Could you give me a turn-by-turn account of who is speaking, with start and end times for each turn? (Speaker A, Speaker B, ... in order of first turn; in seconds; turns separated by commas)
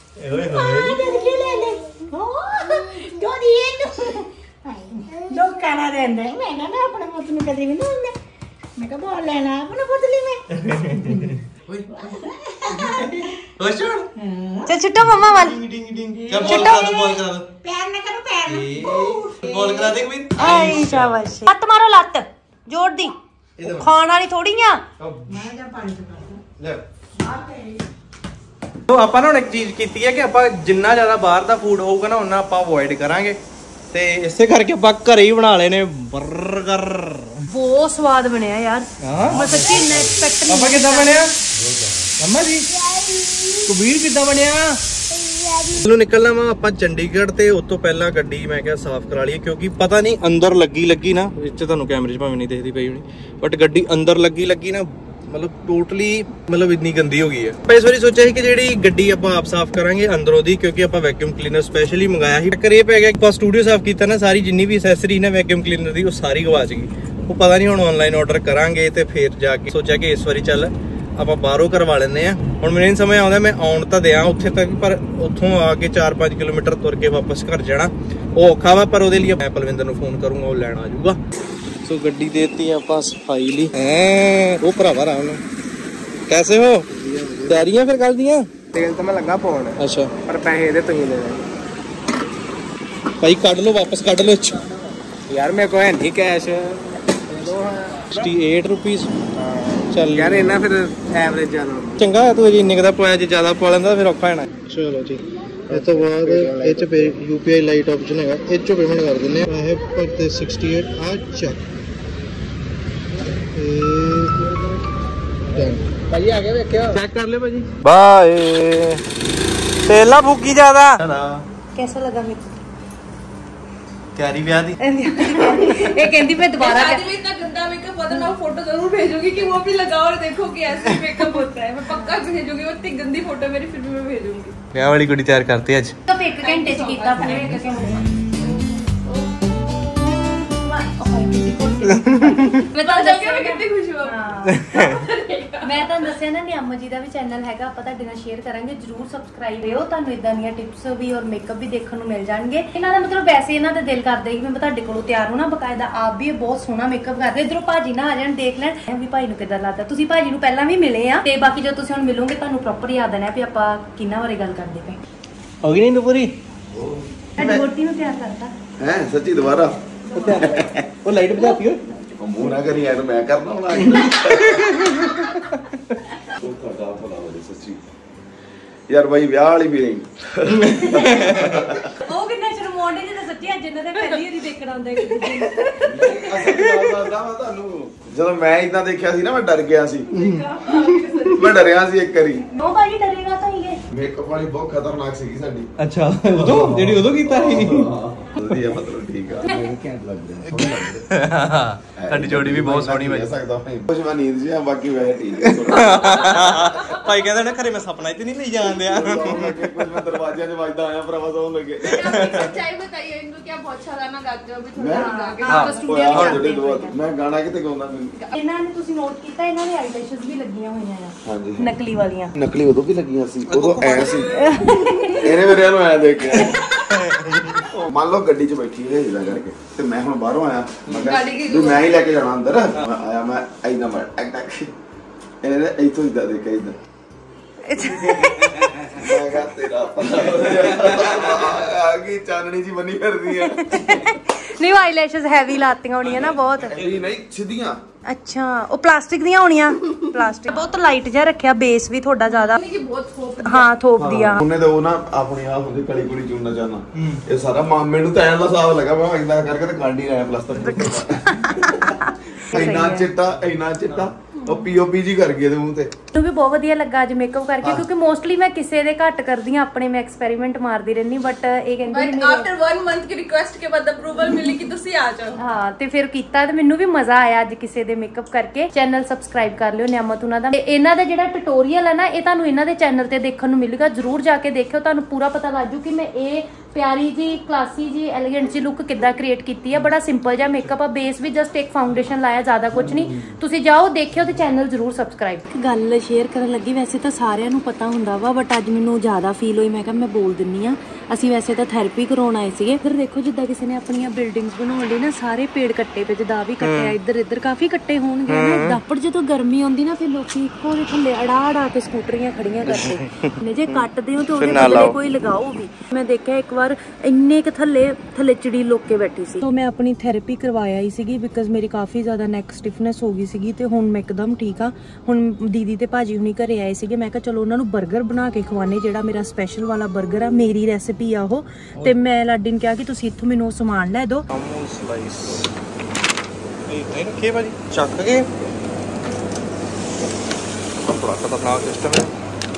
Speaker A: 0.2-1.1, Speaker B: 0.5-8.2, Speaker B: 8.8-10.4, Speaker A: 10.5-14.1, Speaker B: 12.0-12.9, Speaker B: 14.2-14.7, Speaker C: 14.7-15.6, Speaker A: 15.0-17.5, Speaker B: 16.3-17.1, Speaker C: 16.4-17.1, Speaker B: 17.6-19.9, Speaker A: 18.4-21.1, Speaker C: 20.4-24.8, Speaker A: 23.6-23.9, Speaker A: 25.0-25.5, Speaker B: 25.3-26.4, Speaker B: 27.3-27.7, Speaker A: 28.9-33.4, Speaker A: 33.9-37.4, Speaker C: 37.5-41.2, Speaker A: 39.0-41.3, Speaker A: 42.2-42.7, Speaker B: 43.1-43.5, Speaker A: 43.6-44.8, Speaker A: 45.7-81.2, Speaker A: 81.8-85.4, Speaker A: 86.3-86.9, Speaker D: 87.0-87.7, Speaker A: 87.5-88.5, Speaker D: 88.7-91.5, Speaker A: 89.8-90.1, Speaker A: 93.2-94.7, Speaker D: 95.3-98.1, Speaker A: 98.1-99.2, Speaker D: 99.4-102.0, Speaker A: 99.9-100.6, Speaker A: 102.0-111.6, Speaker D: 105.7-106.9, Speaker A: 113.5-114.6, Speaker A: 115.5-115.9, Speaker D: 116.1-117.0, Speaker A: 116.8-119.0, Speaker A: 119.9-121.4, Speaker C: 121.8-122.5, Speaker A: 124.2-124.8, Speaker C: 124.8-127.1, Speaker E: 126.6-134.5, Speaker B: 127.1-127.8, Speaker B: 130.6-130.9, Speaker A: 134.7-135.9, Speaker C: 136.1-138.1, Speaker E: 136.4-137.6, Speaker C: 140.6-144.8, Speaker B: 141.0-142.5, Speaker A: 141.9-142.6, Speaker E: 142.8-146.0, Speaker A: 144.5-145.0, Speaker C: 145.6-165.0, Speaker A: 165.6-166.4, Speaker F: 166.8-167.7, Speaker C: 167.4-168.5, Speaker F: 168.8-169.8, Speaker A: 170.1-171.8, Speaker F: 170.3-170.8, Speaker F: 172.2-174.9, Speaker A: 173.8-176.0, Speaker F: 176.3-177.8, Speaker F: 178.9-181.9, Speaker A: 180.5-181.7, Speaker C: 182.1-186.2, Speaker F: 185.8-190.2, Speaker A: 186.4-186.9, Speaker A: 190.1-191.4, Speaker E: 190.5-190.9, Speaker F: 191.3-192.4, Speaker C: 192.6-193.8, Speaker F: 193.9-195.7, Speaker A: 195.8-198.0, Speaker F: 196.4-201.1, Speaker C: 199.5-199.7, Speaker A: 200.5-203.3, Speaker F: 202.0-206.6, Speaker A: 205.5-210.1, Speaker F: 208.8-212.4, Speaker E: 212.0-216.0, Speaker A: 212.0-212.4, Speaker B: 212.9-213.3, Speaker F: 214.8-215.1, Speaker C: 214.9-217.0, Speaker A: 215.4-216.4, Speaker F: 215.8-218.1, Speaker C: 218.3-222.4, Speaker F: 221.2-221.7, Speaker F: 222.4-224.6, Speaker A: 223.5-224.4, Speaker C: 224.3-225.4, Speaker F: 225.1-226.6, Speaker C: 226.4-226.8, Speaker A: 226.9-227.9, Speaker F: 227.9-234.7, Speaker E: 231.1-231.9, Speaker F: 235.4-236.8, Speaker C: 237.6-239.0, Speaker A: 238.0-238.8, Speaker F: 238.9-244.0, Speaker A: 240.8-241.2, Speaker C: 243.4-246.8, Speaker F: 246.6-247.8, Speaker C: 248.1-252.6, Speaker B: 252.5-253.4, Speaker E: 253.1-253.7, Speaker C: 253.4-254.4, Speaker F: 254.0-261.9, Speaker C: 260.6-263.1, Speaker F: 262.5-265.9, Speaker C: 266.1-272.5, Speaker E: 272.0-273.4, Speaker B: 272.8-275.4, Speaker E: 274.3-275.2, Speaker C: 275.4-334.3, Speaker A: 306.6-306.9, Speaker A: 308.3-308.8, Speaker A: 312.7-313.8, Speaker A: 314.4-315.0, Speaker A: 334.3-335.5, Speaker A: 336.7-338.3, Speaker A: 340.8-342.1